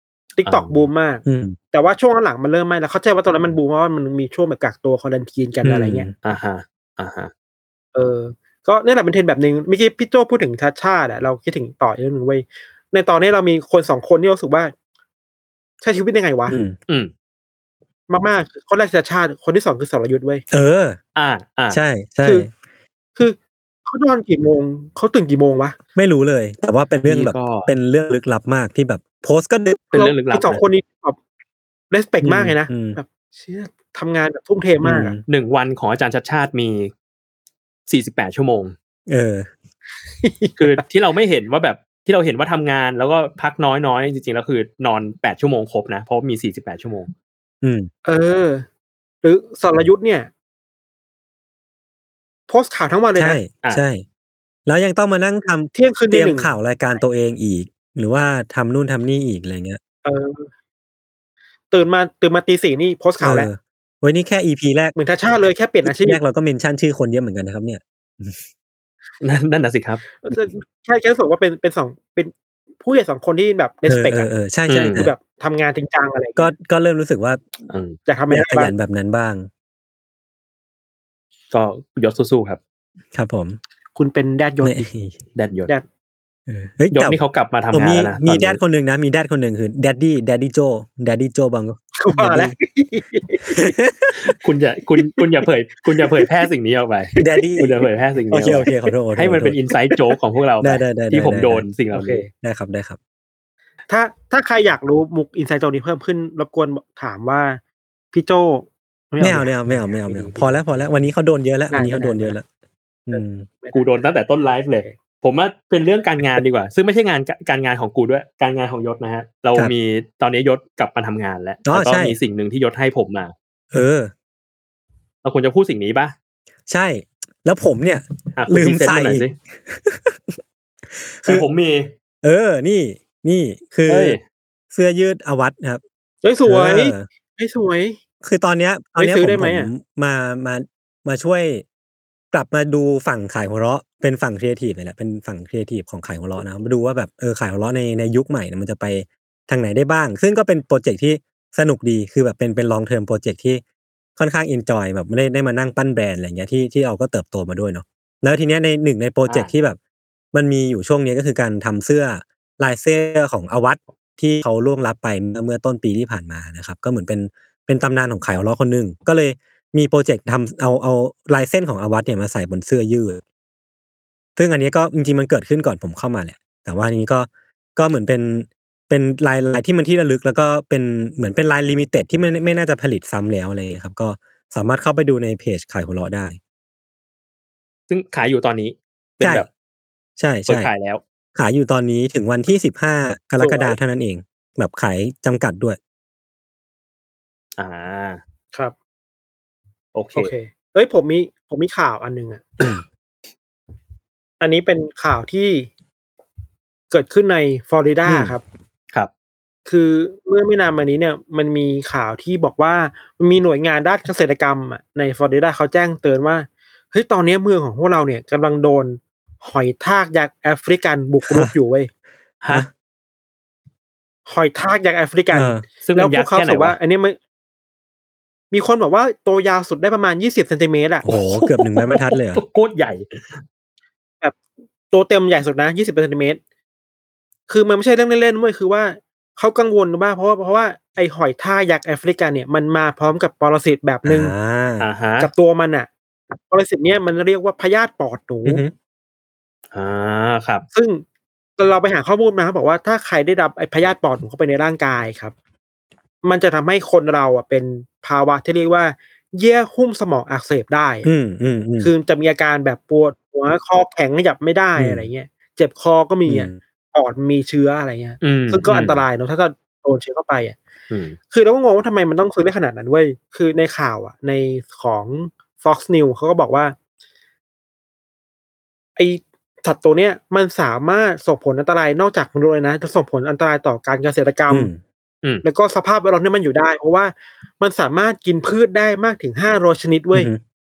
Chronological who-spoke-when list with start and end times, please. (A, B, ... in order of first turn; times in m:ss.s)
0:00.4-0:06.1 A
0:00.4-0:00.9 B
0:01.2-0:01.6 C
0:05.6-0:06.1 C
0:06.2-0:07.3 B
0:07.9-0:14.7 A
0:15.8-0:16.6 A
0:16.5-0:16.8 C
0:18.1-0:20.4 A
0:20.5-0:21.0 C
0:21.2-0:21.8 B
0:21.7-0:22.5 C
0:23.2-0:25.8 A
0:26.0-0:29.8 C
0:27.1-0:27.7 B
0:29.9-0:30.6 B
0:29.9-0:31.2 A
0:31.9-0:35.2 A
0:32.2-0:33.0 C
0:34.8-0:35.2 C
0:35.3-0:36.9 B
0:37.9-0:38.7 B
0:39.1-0:39.5 C
0:40.2-0:40.8 A
0:40.6-0:47.1 B
0:47.6-0:47.9 C
0:48.0-0:48.7 A
0:49.2-0:50.3 A
0:52.5-0:53.4 A
0:53.2-0:54.0 C
0:54.7-0:59.8 C
0:55.7-0:56.5 A
1:00.0-1:00.5 A
1:01.7-1:03.5 A
1:03.2-1:04.9 C
1:05.0-1:06.2 A
1:05.8-1:08.4 C
1:09.2-1:10.0 B
1:10.2-1:16.5 A
1:13.9-1:15.1 C
1:14.7-1:15.1 B
1:16.4-1:17.4 C
1:17.7-1:18.0 B
1:18.1-1:18.7 A
1:18.3-1:19.5 C
1:21.5-1:22.6 B
1:23.1-1:23.6 C
1:24.0-1:24.9 A
1:24.6-1:25.2 C
1:25.4-1:25.7 B
1:26.5-1:27.2 C
1:26.9-1:28.6 B
1:27.7-1:32.6 C
1:32.0-1:33.7 A
1:33.5-1:34.2 C
1:34.2-1:42.2 B
1:37.2-1:37.8 C
1:38.3-1:39.6 C
1:40.6-1:41.7 C
1:41.9-1:42.3 A
1:42.3-1:43.0 C
1:43.9-1:47.6 A
1:48.1-1:50.6 A
1:49.2-1:52.4 C
1:51.7-1:52.4 A
1:53.1-1:53.5 C
1:53.1-1:53.8 A
1:53.7-2:03.3 B
2:01.7-2:02.2 C
2:03.7-2:04.1 C
2:05.2-2:06.1 B
2:06.7-2:10.4 C
2:08.4-2:09.4 B
2:10.9-2:11.5 C
2:11.3-2:11.9 B
2:12.2-2:14.2 C
2:13.9-2:14.2 B
2:14.7-2:15.8 C
2:16.2-2:18.0 A
2:16.4-2:17.1 C
2:18.2-2:21.6 C
2:19.0-2:19.7 A
2:22.3-2:33.6 C
2:34.2-2:39.8 C
2:40.3-2:53.2 C
2:54.4-3:06.4 C
3:07.9-3:09.5 B
3:10.2-3:10.7 C
3:10.5-3:11.0 B
3:11.4-3:15.8 C
3:13.4-3:13.8 A
3:17.6-3:18.2 B
3:19.9-3:20.3 B
3:20.2-3:22.6 A
3:24.4-3:25.7 A
3:26.9-3:28.4 A
3:28.1-3:28.3 C
3:29.7-3:41.9 A
3:41.3-3:41.5 C
3:44.3-3:47.2 A
3:45.3-3:45.6 C
3:45.8-3:46.8 B
3:48.5-3:51.1 A
3:51.0-3:52.4 C
3:51.1-3:53.4 B
3:54.9-3:56.4 A
3:57.5-4:04.3 A
4:04.0-4:04.9 C
4:04.8-4:05.3 B
4:05.2-4:05.9 A
4:06.5-4:08.6 A
4:08.4-4:08.7 C
4:09.7-4:10.7 B
4:10.7-4:11.0 A
4:11.6-4:15.3 A
4:16.2-4:21.1 A
4:21.0-4:21.9 C
4:21.8-4:30.6 A
4:24.8-4:25.1 C
4:26.3-4:26.6 C
4:28.2-4:29.0 B
4:30.9-4:31.2 B
4:31.3-4:36.8 A
4:39.0-4:44.7 A
4:44.5-4:44.8 C
4:45.4-4:50.3 A
4:50.1-4:50.4 C